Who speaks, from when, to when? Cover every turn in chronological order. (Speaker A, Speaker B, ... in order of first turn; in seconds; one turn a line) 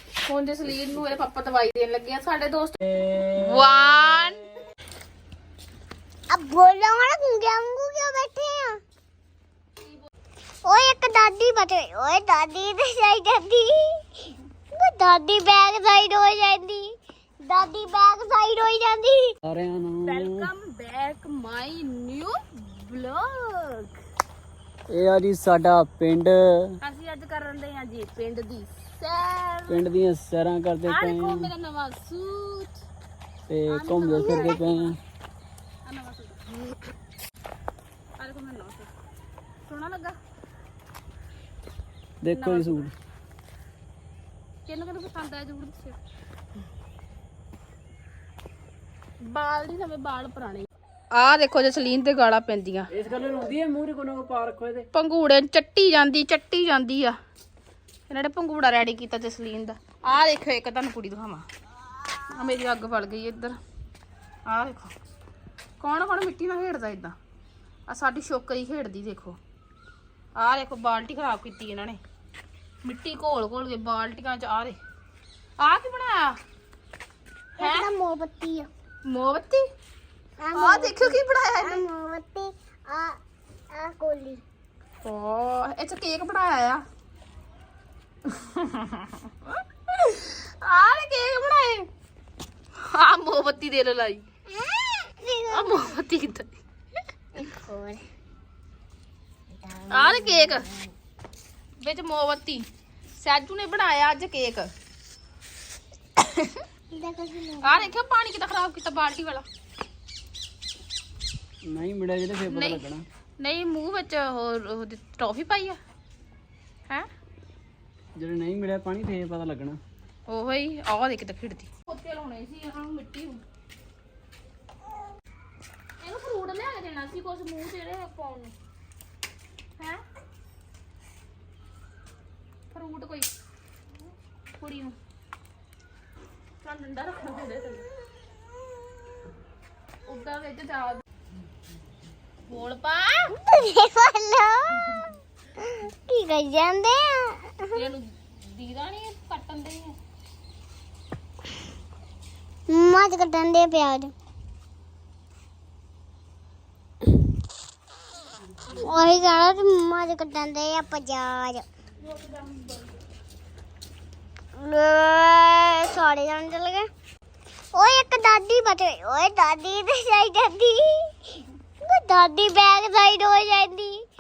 Speaker A: 0.2-2.8
Speaker B: 2.8-4.2
Speaker A: 3.4-4.5
Speaker C: 6.3-8.8
Speaker C: 10.6-14.1
Speaker C: 14.7-16.9
Speaker C: 17.4-19.3
Speaker B: 19.4-20.5
Speaker A: 20.0-23.9
Speaker B: 24.9-26.8
Speaker A: 26.8-29.9
Speaker B: 29.7-31.5
Speaker A: 30.9-32.8
Speaker B: 33.5-35.0
Speaker A: 33.7-35.0
Speaker C: 34.3-34.5
Speaker A: 35.9-36.4
Speaker A: 38.2-38.9
Speaker A: 39.6-40.2
Speaker B: 42.2-42.9
Speaker A: 42.3-42.9
Speaker A: 44.7-46.0
Speaker A: 49.2-52.9
Speaker B: 52.9-54.9
Speaker A: 54.9-57.2
Speaker A: 58.1-61.5
Speaker A: 62.3-63.6
Speaker A: 64.5-64.9
Speaker A: 65.8-67.2
Speaker A: 67.9-69.4
Speaker A: 70.4-72.0
Speaker A: 72.8-74.8
Speaker A: 75.6-76.3
Speaker C: 77.6-78.7
Speaker A: 77.6-77.9
Speaker A: 79.0-79.7
Speaker C: 80.4-83.2
Speaker A: 80.5-81.8
Speaker C: 83.7-84.4
Speaker A: 85.0-86.8
Speaker A: 88.3-91.9
Speaker A: 92.8-94.2
Speaker C: 94.5-96.0
Speaker A: 95.5-96.6
Speaker C: 97.4-98.0
Speaker C: 99.5-100.9
Speaker A: 99.9-100.7
Speaker A: 101.8-102.7
Speaker A: 103.2-104.7
Speaker A: 106.2-106.6
Speaker C: 106.9-108.0
Speaker A: 107.6-109.5
Speaker B: 111.7-113.0
Speaker A: 112.5-112.8
Speaker A: 113.4-115.8
Speaker B: 118.2-119.8
Speaker A: 120.3-123.4
Speaker A: 126.0-128.5
Speaker A: 132.7-133.3
Speaker A: 134.6-134.9
Speaker A: 136.6-137.9
Speaker A: 140.1-141.0
Speaker A: 142.5-143.3
Speaker C: 143.4-144.9
Speaker C: 145.6-147.8
Speaker A: 147.7-149.9
Speaker C: 152.7-154.1
Speaker C: 158.7-161.7
Speaker A: 162.1-162.8
Speaker C: 164.6-166.9
Speaker C: 167.7-171.2
Speaker C: 171.8-174.0